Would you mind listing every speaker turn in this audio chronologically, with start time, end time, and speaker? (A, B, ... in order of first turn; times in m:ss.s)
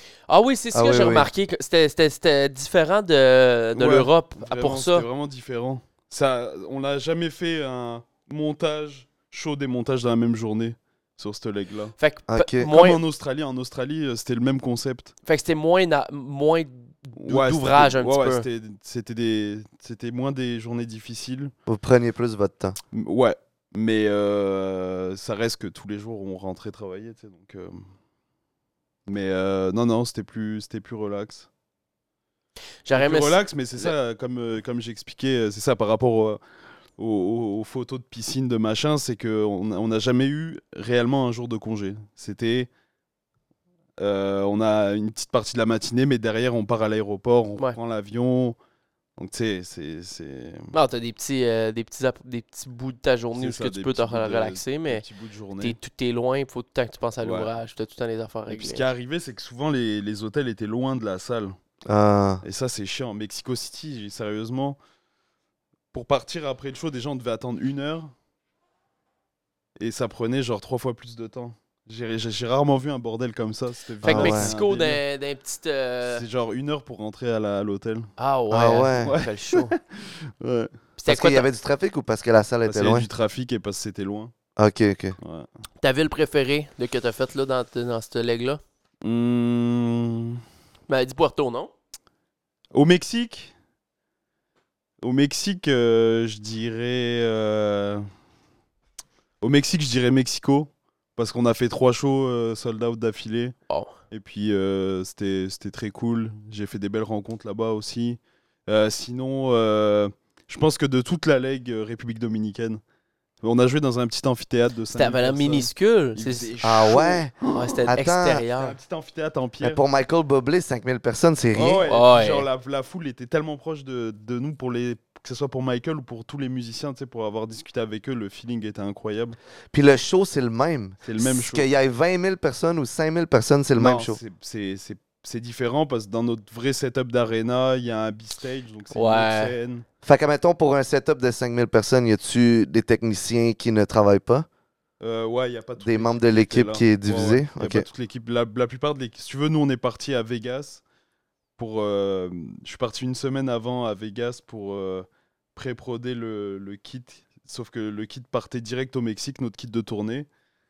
0:00.3-0:05.0 A
0:00.7-0:01.3 B
0:03.7-0:11.9 C
0:12.0-0:13.0 A
0:12.3-0:12.7 B
0:12.6-0:15.1 C
0:15.2-0:18.4 A
0:17.2-0:21.5 C
0:21.7-0:22.8 B
0:22.9-0:27.8 C
0:29.1-0:31.5 C
0:32.8-0:33.9 A
0:32.9-0:36.4 C
0:37.0-0:42.7 C
0:44.0-0:48.6 C
0:49.2-0:50.7 C
0:50.7-0:55.0 A
0:53.3-0:55.8 C
0:55.6-0:58.8 A
0:57.2-0:57.5 C
0:58.5-1:01.5 C
1:01.9-1:02.4 B
1:02.4-1:04.8 C
1:05.9-1:08.1 C
1:09.8-1:15.0 C
1:14.0-1:16.2 A
1:14.1-1:14.5 B
1:16.0-1:18.1 C
1:18.2-1:19.8 A
1:18.5-1:19.1 B
1:19.0-1:20.7 C
1:21.0-1:21.5 A
1:21.1-1:23.0 B
1:22.6-1:24.3 C
1:24.6-1:25.2 B
1:25.2-1:25.5 C
1:25.8-1:28.6 A
1:29.0-1:30.4 C
1:30.9-1:31.7 A
1:32.7-1:33.5 C
1:35.0-1:38.0 C
1:39.4-1:43.5 C
1:44.1-1:52.8 C
1:53.4-1:57.9 C
1:54.9-1:56.5 A
1:56.6-1:57.3 B
1:57.5-1:58.8 A
1:57.9-1:58.4 B
1:58.5-1:59.8 C
1:59.6-2:01.8 B
2:01.5-2:09.4 C
2:01.8-2:02.4 A
2:09.7-2:14.2 B
2:11.0-2:11.7 C
2:13.8-2:19.8 C
2:18.9-2:19.5 A
2:20.0-2:24.5 B
2:25.0-2:30.8 C
2:25.8-2:27.8 B
2:31.6-2:40.3 C